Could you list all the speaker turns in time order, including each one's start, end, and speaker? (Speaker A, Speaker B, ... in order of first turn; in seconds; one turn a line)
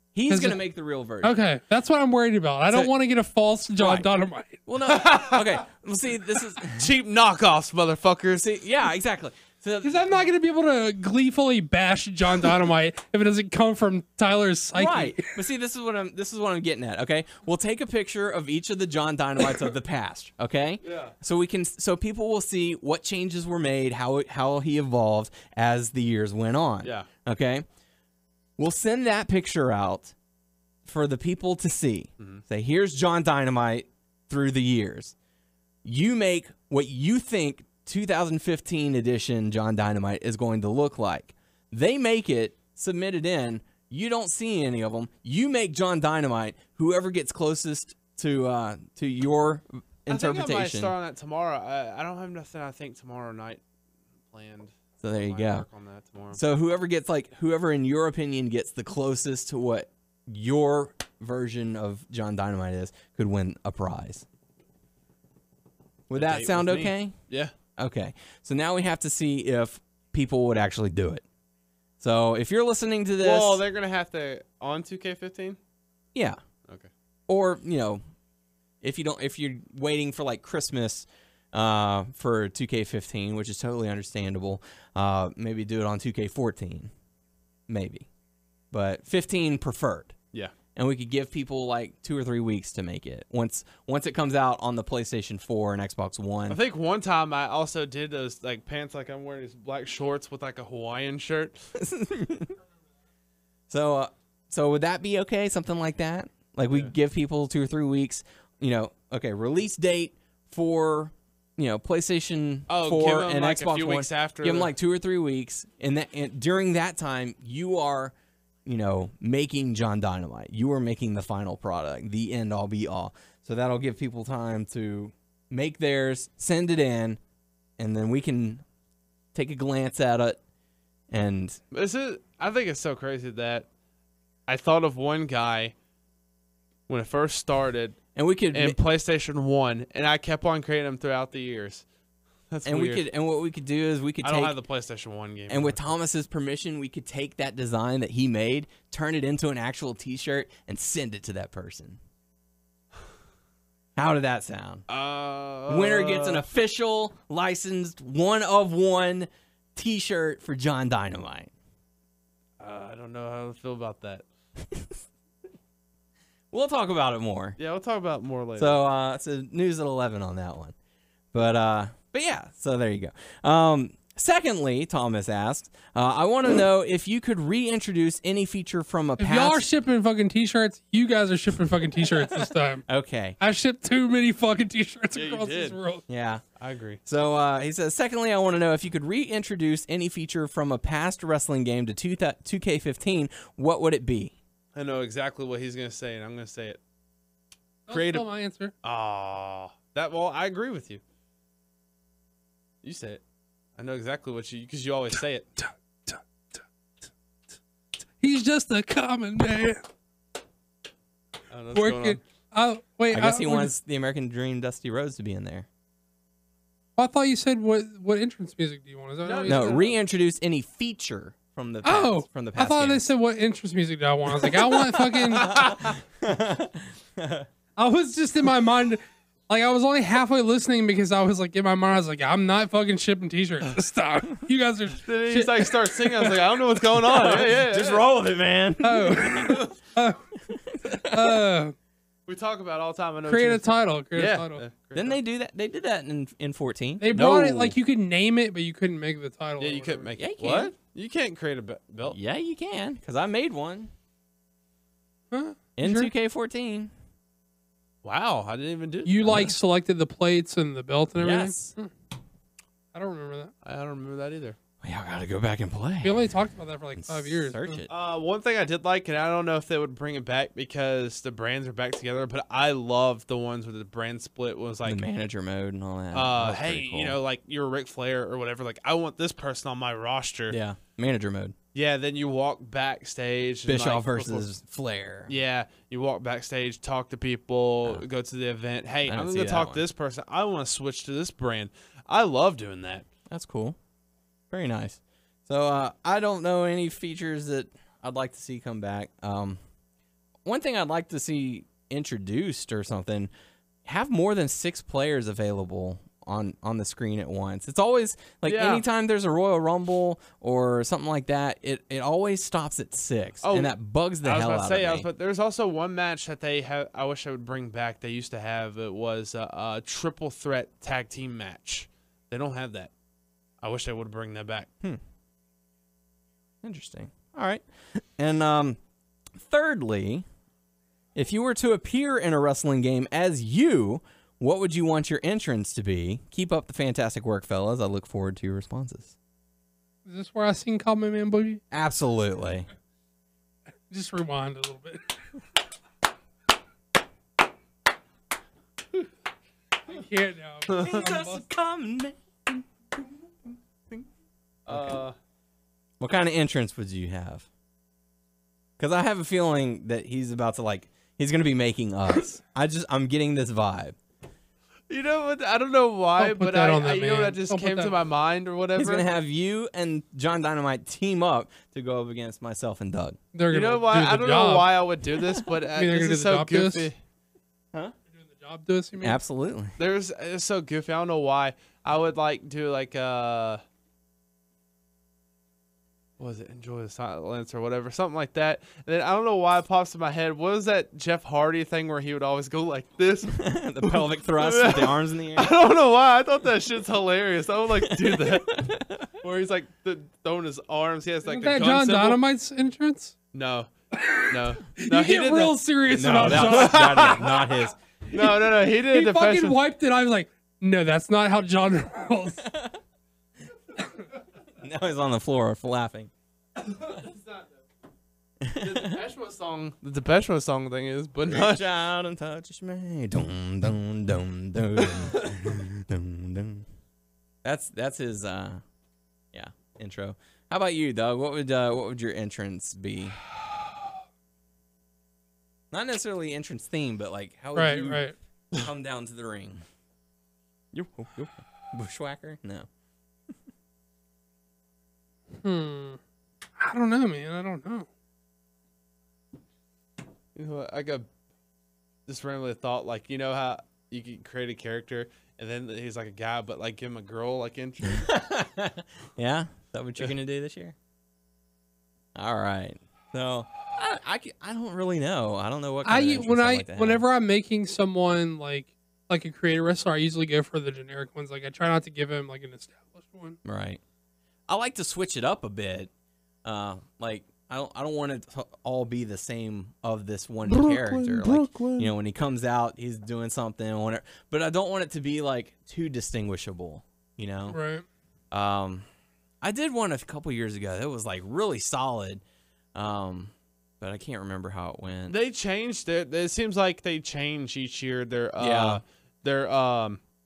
Speaker A: 0.1-1.4
Speaker B: 0.3-0.6
Speaker B: 1.2-4.6
Speaker A: 3.8-4.1
Speaker A: 4.7-6.8
Speaker C: 4.9-5.5
Speaker C: 6.7-8.5
Speaker A: 8.4-10.2
Speaker B: 9.8-15.4
Speaker A: 14.7-27.6
Speaker C: 20.8-21.1
Speaker A: 28.6-30.1
Speaker A: 30.8-35.1
Speaker A: 35.8-50.9
Speaker C: 50.1-53.6
Speaker C: 54.3-56.4
Speaker A: 55.0-55.6
Speaker A: 56.3-64.2
Speaker A: 66.1-67.2
Speaker C: 66.1-67.5
Speaker A: 67.8-71.2
Speaker A: 72.0-73.6
Speaker C: 73.2-75.6
Speaker A: 76.1-76.4
Speaker A: 77.3-78.0
Speaker A: 78.8-86.9
Speaker A: 87.7-88.1
Speaker A: 88.7-90.2
Speaker A: 90.7-96.6
Speaker C: 96.5-101.6
Speaker A: 101.7-102.5
Speaker A: 103.7-118.1
Speaker C: 112.7-114.7
Speaker A: 118.7-127.2
Speaker A: 127.8-128.6
Speaker A: 129.3-130.4
Speaker A: 131.1-131.6
Speaker C: 131.7-133.7
Speaker C: 134.5-135.7
Speaker C: 136.9-138.0
Speaker A: 138.1-138.8
Speaker C: 138.5-141.8
Speaker C: 142.5-143.0
Speaker A: 142.6-144.5
Speaker C: 144.2-145.8
Speaker A: 145.5-152.0
Speaker A: 153.9-154.8
Speaker C: 154.9-156.4
Speaker A: 155.7-161.5
Speaker C: 162.6-164.2
Speaker A: 166.5-167.6
Speaker C: 167.6-168.8
Speaker A: 168.6-170.7
Speaker A: 171.3-179.6
Speaker B: 179.2-182.8
Speaker A: 182.3-183.4
Speaker B: 183.4-186.0
Speaker C: 185.1-185.8
Speaker A: 186.1-186.4
Speaker C: 186.6-187.0
Speaker A: 187.1-194.3
Speaker C: 194.7-196.8
Speaker B: 197.9-198.7
Speaker C: 197.9-198.3
Speaker C: 198.8-201.0
Speaker C: 202.8-203.2
Speaker C: 203.8-205.5
Speaker B: 208.2-209.8
Speaker C: 211.5-212.2
Speaker B: 211.7-213.7
Speaker A: 213.1-215.7
Speaker B: 217.0-219.8
Speaker C: 219.2-219.9
Speaker A: 219.5-223.1
Speaker B: 221.8-225.6
Speaker A: 224.4-227.5
Speaker B: 227.8-236.3
Speaker C: 235.1-238.1
Speaker A: 237.0-239.7
Speaker B: 238.8-240.2
Speaker A: 240.5-241.4
Speaker B: 241.0-241.7
Speaker C: 242.3-245.2
Speaker B: 243.3-244.6
Speaker A: 244.9-247.3
Speaker B: 247.0-250.1
Speaker C: 247.1-247.7
Speaker C: 249.6-252.2
Speaker A: 250.2-250.7
Speaker A: 252.1-253.9
Speaker B: 255.3-256.1
Speaker A: 255.8-256.9
Speaker C: 258.0-259.3
Speaker B: 259.1-261.9
Speaker A: 259.2-259.5
Speaker A: 261.2-261.7
Speaker B: 262.9-263.5
Speaker C: 263.6-264.6
Speaker A: 264.8-266.3
Speaker B: 266.0-267.8
Speaker A: 266.9-267.9
Speaker C: 267.9-275.0
Speaker A: 274.8-277.2
Speaker C: 276.1-280.6
Speaker A: 280.5-281.5
Speaker C: 281.7-284.5
Speaker A: 283.6-285.3
Speaker C: 285.3-293.1
Speaker A: 289.1-289.8
Speaker A: 293.3-293.8
Speaker A: 294.5-299.6
Speaker A: 300.4-303.3
Speaker A: 303.8-315.1
Speaker C: 308.4-308.8
Speaker C: 313.4-322.9
Speaker C: 323.6-324.7
Speaker A: 326.6-328.8
Speaker A: 329.3-330.2
Speaker A: 331.1-339.1
Speaker B: 340.0-341.6
Speaker A: 341.7-342.7
Speaker B: 343.9-345.2
Speaker B: 349.9-351.4
Speaker C: 350.7-351.0
Speaker A: 350.8-352.7
Speaker C: 354.6-355.1
Speaker A: 354.7-355.0
Speaker A: 356.0-357.5
Speaker A: 358.8-364.0
Speaker C: 364.9-369.0
Speaker B: 366.2-367.9
Speaker A: 368.8-373.2
Speaker B: 373.3-374.7
Speaker C: 373.5-376.9
Speaker B: 375.7-376.9
Speaker B: 378.1-379.2
Speaker A: 379.0-379.8
Speaker C: 379.8-383.6
Speaker C: 386.2-402.2
Speaker A: 393.3-395.5
Speaker A: 397.9-399.1
Speaker B: 401.3-403.1
Speaker C: 403.3-403.7
Speaker B: 403.9-407.5
Speaker C: 404.3-407.4
Speaker A: 405.9-407.8
Speaker C: 408.1-409.6
Speaker B: 408.1-412.5
Speaker A: 412.5-412.8
Speaker A: 414.6-416.1
Speaker C: 416.7-417.5
Speaker A: 418.4-419.0
Speaker C: 418.6-421.7
Speaker A: 421.3-426.7
Speaker A: 427.4-428.6
Speaker A: 429.3-433.2
Speaker A: 435.7-439.6
Speaker B: 437.5-438.1
Speaker A: 440.7-442.7
Speaker B: 445.3-446.0
Speaker B: 446.6-447.9
Speaker C: 450.3-451.1
Speaker C: 452.1-458.1
Speaker A: 457.8-460.7
Speaker A: 462.1-467.0
Speaker B: 465.8-473.4
Speaker A: 473.4-473.8
Speaker A: 474.5-475.9
Speaker A: 476.4-487.6
Speaker C: 480.5-481.9
Speaker B: 487.5-487.8
Speaker A: 488.3-488.9
Speaker A: 489.4-492.2
Speaker A: 492.7-495.1
Speaker C: 495.1-500.0
Speaker A: 498.4-498.8